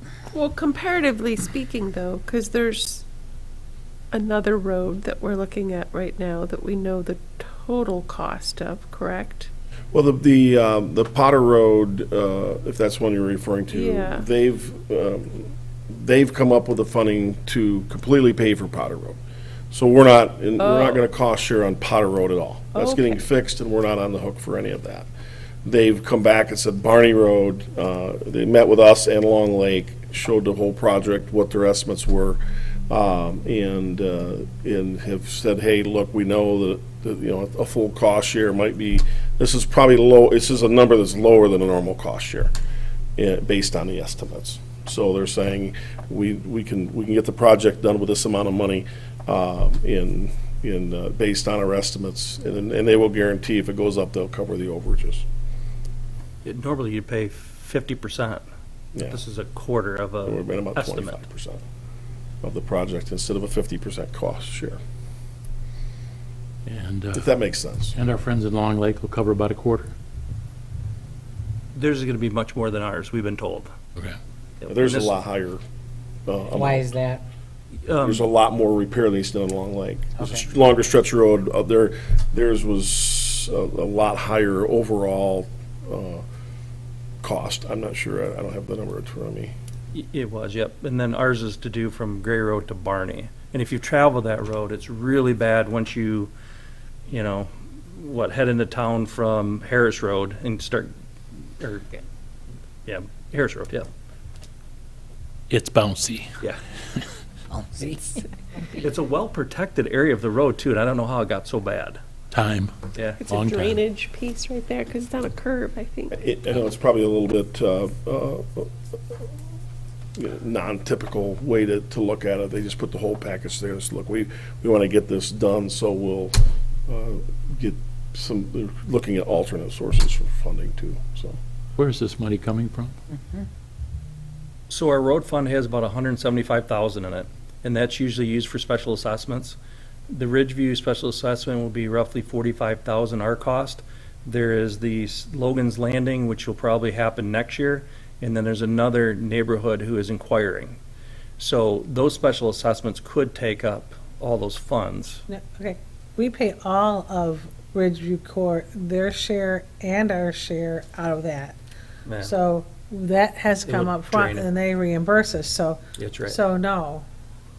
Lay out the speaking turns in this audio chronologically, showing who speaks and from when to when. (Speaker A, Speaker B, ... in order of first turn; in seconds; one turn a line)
Speaker A: 0.3-3.0
Speaker A: 4.1-9.5
Speaker B: 9.9-19.2
Speaker A: 13.7-14.3
Speaker B: 19.7-25.1
Speaker A: 20.6-21.1
Speaker A: 22.8-23.2
Speaker B: 25.6-42.5
Speaker B: 43.2-55.2
Speaker C: 56.5-58.4
Speaker C: 59.1-61.2
Speaker B: 60.2-61.6
Speaker B: 62.4-64.8
Speaker D: 66.7-67.3
Speaker B: 67.2-67.9
Speaker D: 67.9-69.9
Speaker C: 71.8-73.7
Speaker C: 74.6-75.2
Speaker B: 74.7-75.6
Speaker B: 76.3-76.9
Speaker E: 76.5-77.2
Speaker C: 77.9-78.2
Speaker B: 78.0-86.2
Speaker E: 80.2-80.5
Speaker B: 87.2-89.5
Speaker C: 89.9-96.3
Speaker C: 97.1-100.9
Speaker C: 101.6-102.0
Speaker C: 102.9-103.9
Speaker D: 105.5-106.3
Speaker E: 107.5-108.2
Speaker C: 108.8-112.0
Speaker D: 112.3-112.8
Speaker C: 112.9-113.2
Speaker A: 113.2-116.2
Speaker D: 113.3-113.8
Speaker B: 116.2-118.7
Speaker B: 120.2-131.4
Speaker D: 131.8-132.9
Speaker E: 133.1-133.5
Speaker C: 134.7-139.6
Speaker C: 140.1-150.8
Speaker C: 151.4-155.2
Speaker F: 155.3-161.6
Speaker C: 162.1-162.3
Speaker F: 162.2-167.1
Speaker C: 163.7-164.5
Speaker C: 166.0-166.4